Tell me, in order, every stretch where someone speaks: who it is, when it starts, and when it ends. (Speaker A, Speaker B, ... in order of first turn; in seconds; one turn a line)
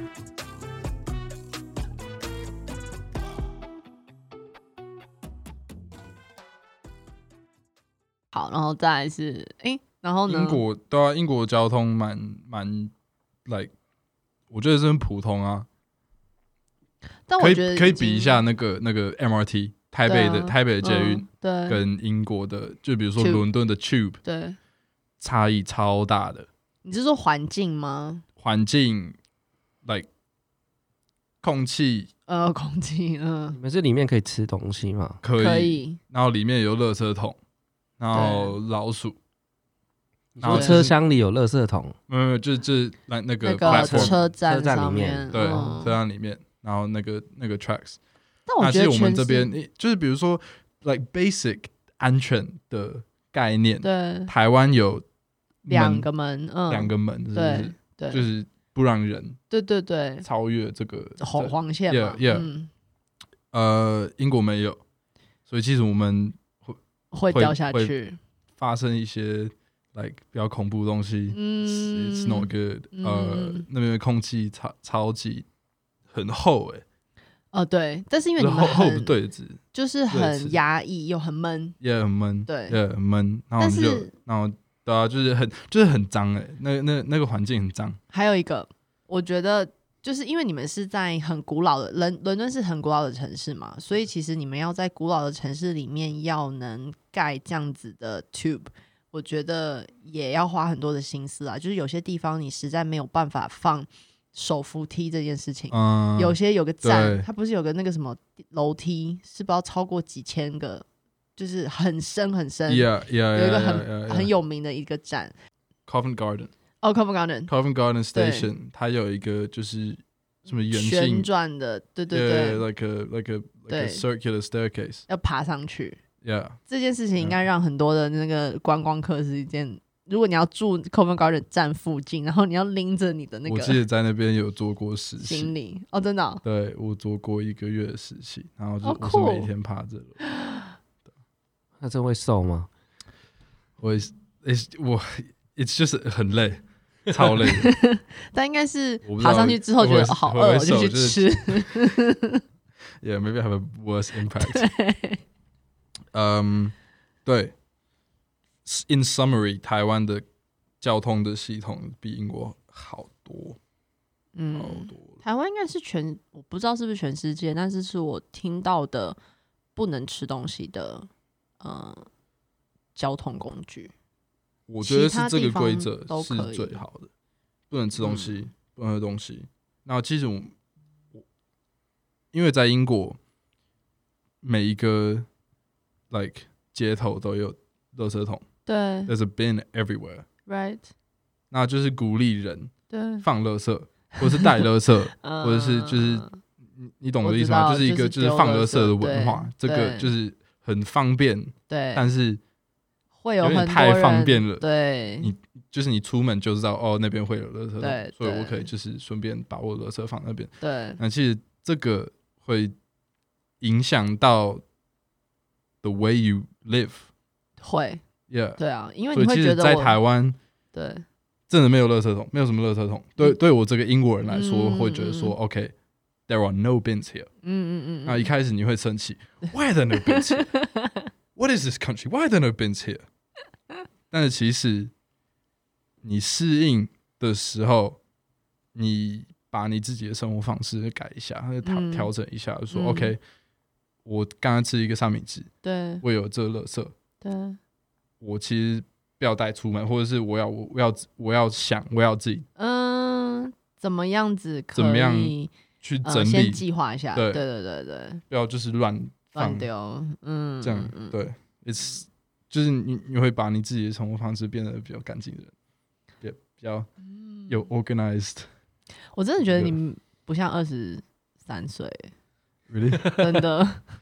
Speaker A: 8.3-10.6
Speaker B: 10.3-12.9
Speaker B: 13.5-13.7
Speaker B: 14.5-15.7
Speaker A: 17.3-18.4
Speaker B: 17.4-24.2
Speaker A: 20.1-21.8
Speaker A: 23.2-23.4
Speaker A: 24.2-24.6
Speaker B: 25.2-26.5
Speaker A: 26.8-28.2
Speaker B: 28.4-29.2
Speaker B: 31.4-32.1
Speaker A: 32.3-33.6
Speaker C: 33.5-35.2
Speaker B: 35.2-37.4
Speaker A: 35.4-36.0
Speaker B: 38.0-39.2
Speaker A: 38.1-38.6
Speaker C: 40.4-42.0
Speaker B: 40.4-41.0
Speaker A: 40.5-40.8
Speaker B: 42.1-44.2
Speaker A: 43.4-46.0
Speaker C: 43.6-45.7
Speaker B: 45.3-48.0
Speaker A: 48.5-49.5
Speaker B: 48.6-55.0
Speaker A: 53.8-54.3
Speaker B: 55.6-56.1
Speaker A: 55.7-58.3
Speaker B: 56.7-59.4
Speaker A: 59.5-60.3
Speaker B: 60.2-62.5
Speaker A: 61.2-62.7
Speaker B: 63.5-64.8
Speaker B: 65.5-67.9
Speaker A: 67.1-68.2
Speaker B: 68.6-75.5
Speaker A: 71.3-73.7
Speaker B: 76.1-76.8
Speaker A: 77.5-79.2
Speaker B: 78.4-80.6
Speaker A: 79.7-81.8
Speaker B: 81.8-88.0
Speaker A: 82.5-82.8
Speaker A: 83.6-84.1
Speaker A: 88.1-110.8
Speaker B: 105.7-107.3
Speaker A: 111.4-115.3
Speaker B: 112.7-114.3
Speaker B: 115.9-116.5
Speaker A: 116.8-117.5
Speaker B: 117.5-121.3
Speaker A: 118.1-118.5
Speaker A: 120.7-122.7
Speaker B: 122.1-125.0
Speaker A: 123.7-124.0
Speaker A: 125.1-126.0
Speaker B: 126.2-126.6
Speaker A: 126.7-133.8
Speaker B: 133.5-135.5
Speaker A: 135.2-136.4
Speaker B: 136.4-140.2
Speaker A: 138.8-139.5
Speaker A: 140.3-140.7
Speaker C: 141.8-142.7
Speaker B: 143.8-147.7
Speaker A: 147.5-152.4
Speaker B: 149.1-151.8
Speaker B: 153.0-154.7
Speaker A: 154.4-155.2
Speaker B: 156.1-156.7
Speaker B: 157.2-157.5
Speaker B: 158.7-160.2
Speaker B: 160.8-163.6
Speaker A: 164.3-169.2
Speaker B: 164.6-165.2
Speaker A: 169.8-171.1
Speaker A: 171.6-172.1
Speaker A: 172.9-173.9
Speaker B: 174.7-177.1
Speaker A: 174.8-176.8
Speaker B: 177.7-180.5
Speaker A: 178.0-178.4
Speaker B: 182.3-183.2
Speaker B: 184.4-185.3
Speaker B: 186.1-188.4
Speaker A: 188.7-189.1
Speaker B: 189.1-190.3
Speaker A: 190.5-190.9
Speaker B: 191.5-202.4
Speaker A: 192.9-193.2
Speaker A: 195.2-196.4
Speaker A: 197.2-200.1
Speaker A: 201.7-202.1
Speaker A: 203.2-205.3
Speaker B: 203.4-204.7
Speaker B: 205.2-212.8
Speaker A: 207.8-208.7
Speaker A: 210.6-211.0
Speaker B: 213.6-214.6
Speaker B: 215.8-217.1
Speaker A: 217.6-218.0
Speaker B: 218.3-218.6
Speaker A: 218.6-220.0
Speaker B: 219.1-220.4
Speaker A: 220.7-221.1
Speaker B: 221.5-225.7
Speaker A: 224.3-225.3
Speaker B: 226.3-227.3
Speaker A: 227.4-228.3
Speaker B: 228.1-230.5
Speaker A: 230.0-231.1
Speaker B: 231.3-233.1
Speaker B: 234.1-234.9
Speaker B: 236.0-238.0
Speaker B: 238.8-243.2
Speaker A: 241.6-242.1
Speaker A: 242.7-243.2
Speaker B: 244.1-245.5
Speaker A: 245.6-246.0
Speaker B: 246.0-246.9
Speaker A: 247.2-247.6
Speaker B: 248.2-252.5
Speaker A: 252.6-255.5
Speaker B: 254.8-257.4
Speaker A: 256.0-258.2
Speaker B: 258.3-259.7
Speaker A: 259.3-261.2
Speaker B: 260.6-265.5
Speaker B: 266.2-266.9
Speaker A: 267.0-267.6
Speaker B: 267.5-268.5
Speaker A: 269.1-272.1
Speaker B: 269.5-269.8
Speaker B: 272.7-273.4
Speaker A: 273.2-273.8